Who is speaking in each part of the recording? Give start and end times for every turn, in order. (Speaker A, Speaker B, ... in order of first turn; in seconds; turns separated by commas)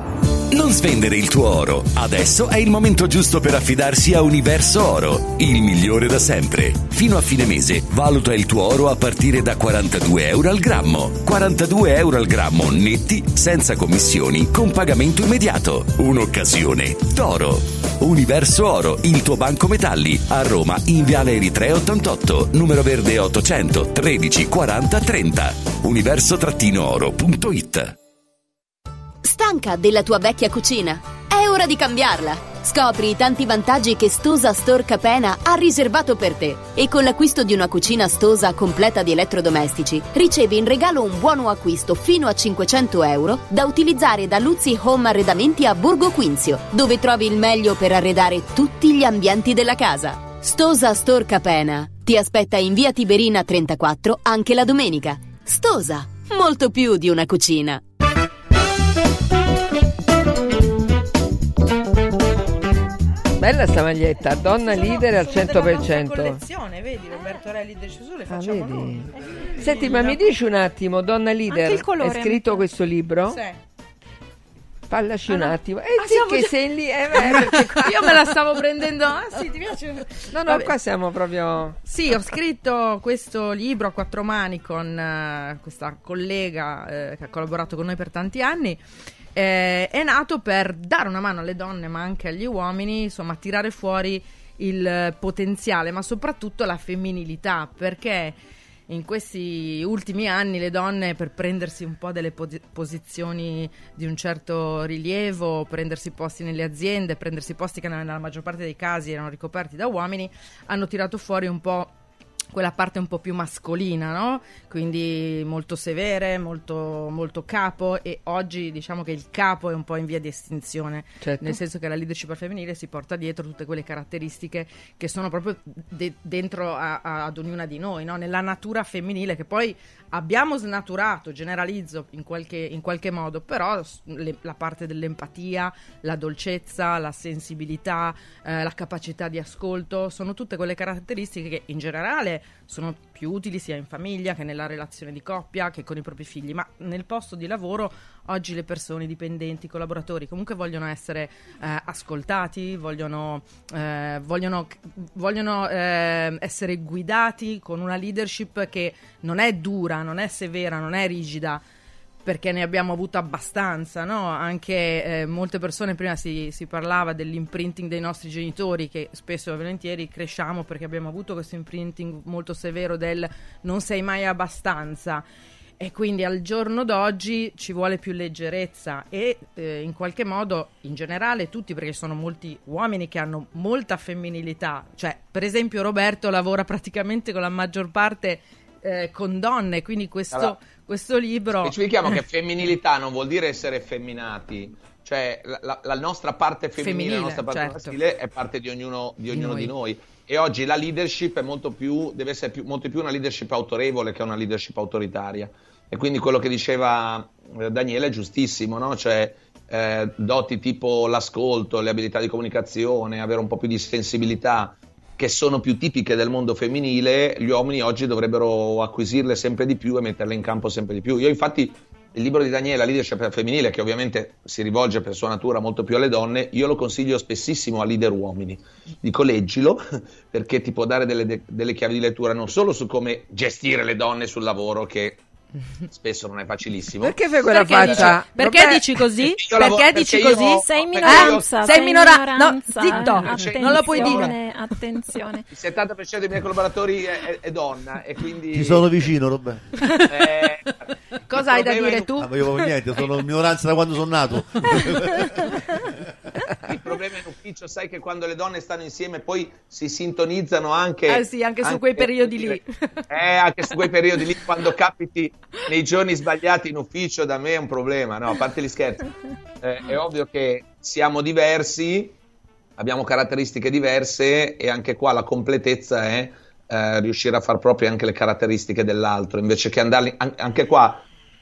Speaker A: 0.5-27.9, Speaker B: 29.2-57.8, Speaker C: 63.4-66.4, Speaker D: 64.7-69.1, Speaker C: 68.3-73.4, Speaker E: 69.0-70.0, Speaker D: 69.6-70.2, Speaker F: 71.5-72.7, Speaker D: 73.3-73.6, Speaker C: 74.9-78.1, Speaker D: 75.3-76.5, Speaker D: 77.1-80.7, Speaker C: 80.3-81.8, Speaker D: 81.8-88.8, Speaker D: 89.3-98.4, Speaker D: 98.9-111.9, Speaker D: 112.5-161.6, Speaker C: 121.2-121.6, Speaker D: 162.2-175.2, Speaker D: 175.8-192.2, Speaker G: 191.6-235.2, Speaker D: 196.8-198.0, Speaker D: 199.3-199.7, Speaker G: 235.9-237.2, Speaker C: 237.0-238.8, Speaker D: 237.4-244.4, Speaker G: 237.8-238.2, Speaker G: 239.3-241.9, Speaker F: 240.7-245.5, Speaker G: 242.9-244.3, Speaker G: 245.5-249.0, Speaker E: 248.5-249.8, Speaker D: 249.8-250.2, Speaker G: 250.1-250.8, Speaker D: 251.3-252.7, Speaker G: 251.3-252.1, Speaker E: 252.2-255.9, Speaker G: 256.7-269.1, Speaker D: 261.1-263.1, Speaker G: 269.6-272.1, Speaker G: 272.8-281.1